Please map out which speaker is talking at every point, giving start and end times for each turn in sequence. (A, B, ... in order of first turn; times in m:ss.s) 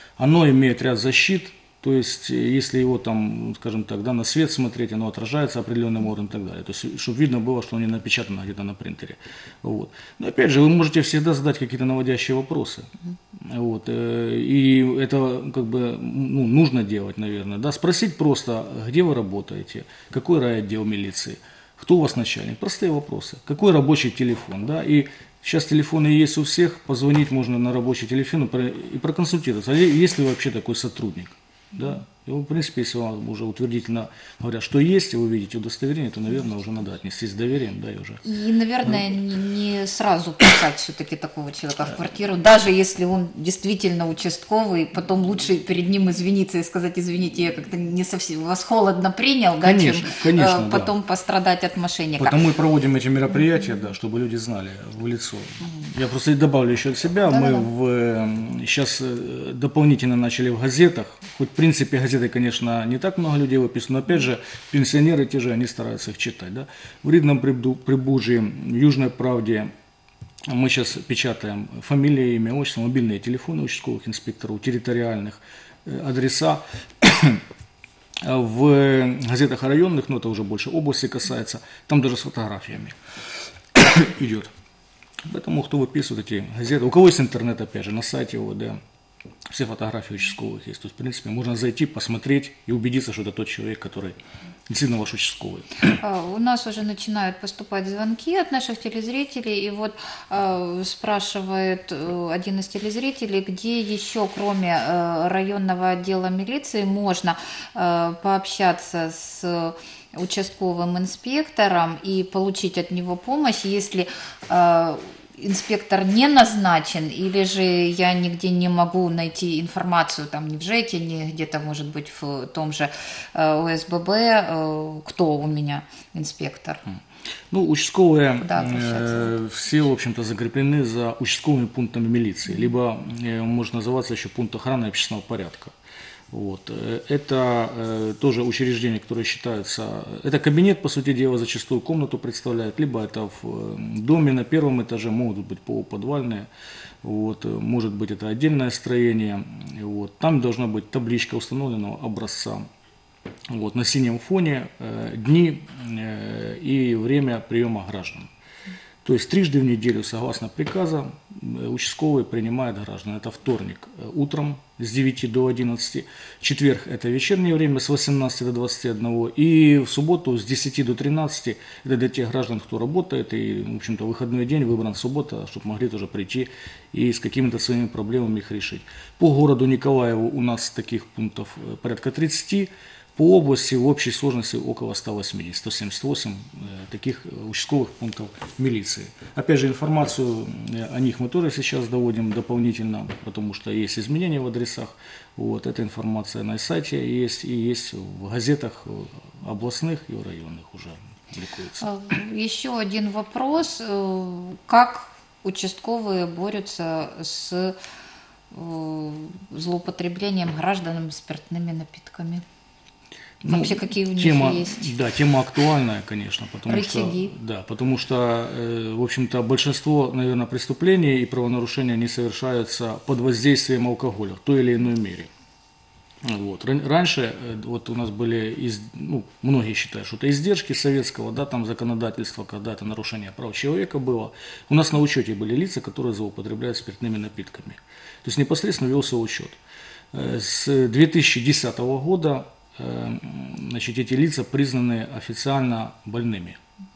0:00.2-0:38.2 A
0:38.2-0:52.4 B
0:49.6-0:50.9 A
0:52.2-1:09.7 A
0:57.3-0:57.7 B
1:10.5-1:17.4 A
1:18.2-1:23.0 A
1:23.7-1:24.5 A
1:25.2-1:28.8 A
1:29.5-1:34.2 A
1:34.7-1:36.0 A
1:36.0-2:06.8 B
2:07.5-2:15.7 A
2:08.4-2:09.3 B
2:16.3-2:26.5 A
2:27.0-2:32.6 A
2:33.5-2:38.3 A
2:39.0-3:21.8 A
3:21.8-3:27.8 B
3:28.5-3:32.4 B
3:33.4-3:45.3 A
3:33.4-3:34.9 B
3:36.7-3:37.3 B
3:46.2-3:59.6 A
4:00.1-4:06.6 A